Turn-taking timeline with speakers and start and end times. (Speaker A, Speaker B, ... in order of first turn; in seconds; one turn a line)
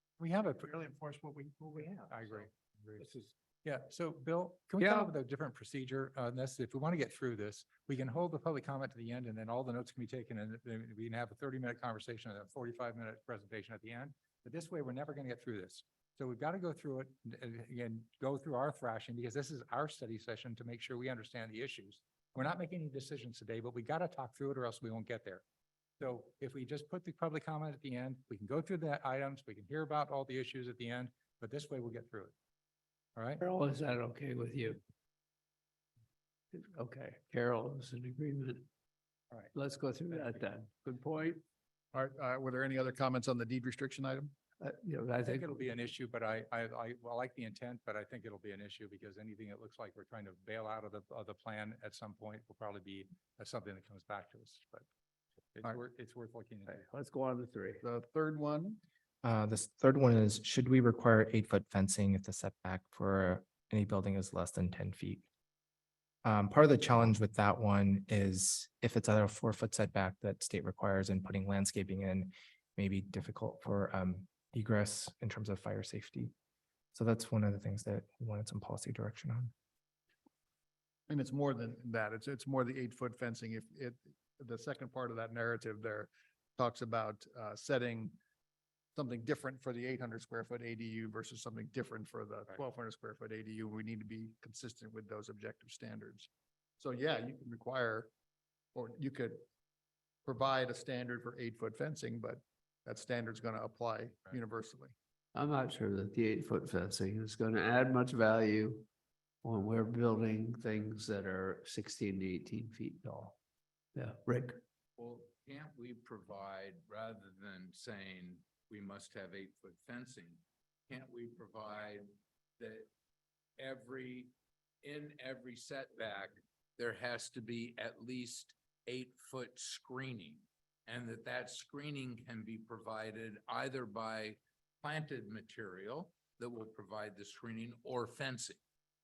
Speaker A: 0.2-0.7
Speaker B: 0.6-2.5
Speaker A: 1.8-3.1
Speaker B: 3.0-3.3
Speaker A: 3.6-25.4
Speaker C: 4.8-5.1
Speaker A: 26.0-32.3
Speaker C: 33.4-34.8
Speaker C: 36.5-38.7
Speaker C: 39.5-41.4
Speaker D: 41.9-44.3
Speaker C: 44.6-45.7
Speaker A: 45.2-54.9
Speaker A: 55.5-56.9
Speaker C: 56.7-57.8
Speaker D: 57.8-58.8
Speaker E: 59.2-65.2
Speaker E: 66.2-76.3
Speaker E: 76.9-79.5
Speaker D: 81.1-88.2
Speaker D: 89.0-98.1
Speaker D: 98.8-99.4
Speaker D: 100.2-105.0
Speaker C: 105.3-108.9
Speaker C: 109.4-113.3
Speaker C: 114.0-114.6
Speaker F: 115.0-122.1
Speaker F: 122.6-122.9
Speaker F: 123.6-124.3
Speaker F: 124.8-138.6